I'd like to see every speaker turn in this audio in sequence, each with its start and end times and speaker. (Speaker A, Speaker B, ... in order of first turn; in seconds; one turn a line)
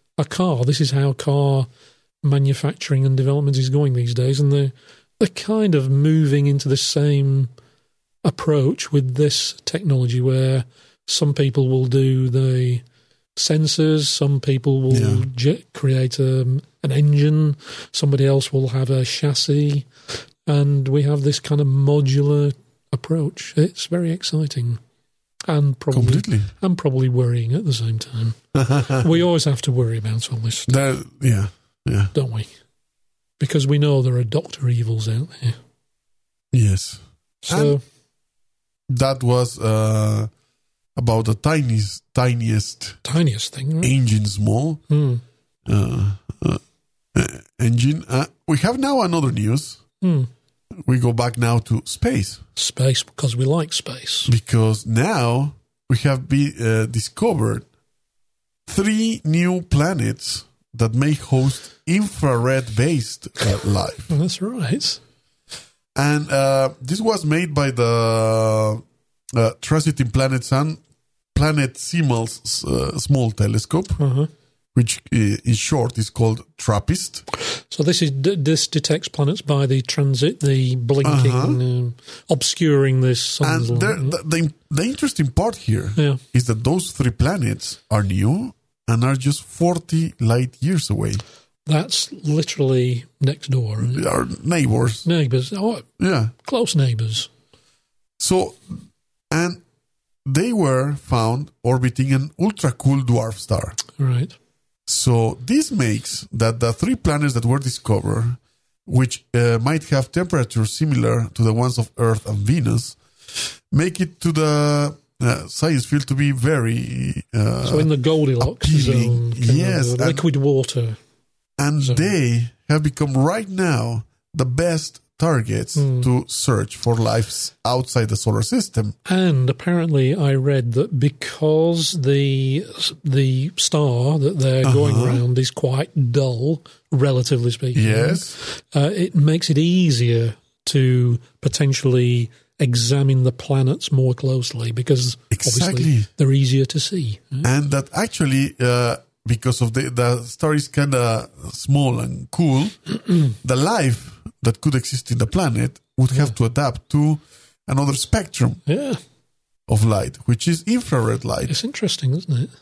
Speaker A: 0.2-1.7
Speaker A: 2.2-7.5
Speaker A: 8.2-12.8
Speaker A: 13.3-19.9
Speaker B: 14.9-15.2
Speaker A: 20.4-24.8
Speaker A: 25.5-30.7
Speaker B: 25.9-26.5
Speaker B: 28.6-29.0
Speaker B: 30.7-32.1
Speaker A: 32.1-32.5
Speaker A: 33.4-35.6
Speaker B: 36.5-37.8
Speaker A: 37.5-37.8
Speaker B: 38.9-40.3
Speaker B: 41.0-43.0
Speaker A: 43.0-43.9
Speaker B: 43.8-44.8
Speaker A: 44.9-45.2
Speaker B: 45.7-46.6
Speaker B: 47.1-49.8
Speaker A: 50.0-50.3
Speaker B: 50.9-52.4
Speaker A: 52.5-54.3
Speaker B: 54.3-57.6
Speaker B: 58.7-64.1
Speaker A: 64.1-65.0
Speaker B: 65.9-68.8
Speaker B: 69.3-70.8
Speaker B: 71.3-74.0
Speaker A: 74.0-74.3
Speaker B: 74.7-77.2
Speaker A: 77.6-84.2
Speaker B: 81.0-81.6
Speaker B: 83.4-91.2
Speaker A: 86.0-86.2
Speaker A: 91.7-94.0
Speaker B: 93.8-95.0
Speaker A: 95.0-97.3
Speaker B: 96.0-96.3
Speaker B: 98.2-98.7
Speaker B: 99.3-99.6
Speaker B: 100.2-103.8
Speaker A: 104.0-104.3
Speaker B: 104.9-113.0
Speaker B: 113.7-120.2
Speaker A: 117.6-121.0
Speaker B: 121.6-128.9
Speaker A: 125.8-126.1
Speaker A: 129.1-147.5
Speaker B: 134.6-135.2
Speaker B: 137.7-138.3
Speaker B: 145.3-146.1
Speaker B: 147.4-158.6
Speaker A: 158.7-159.0
Speaker B: 159.7-161.5
Speaker A: 161.5-162.5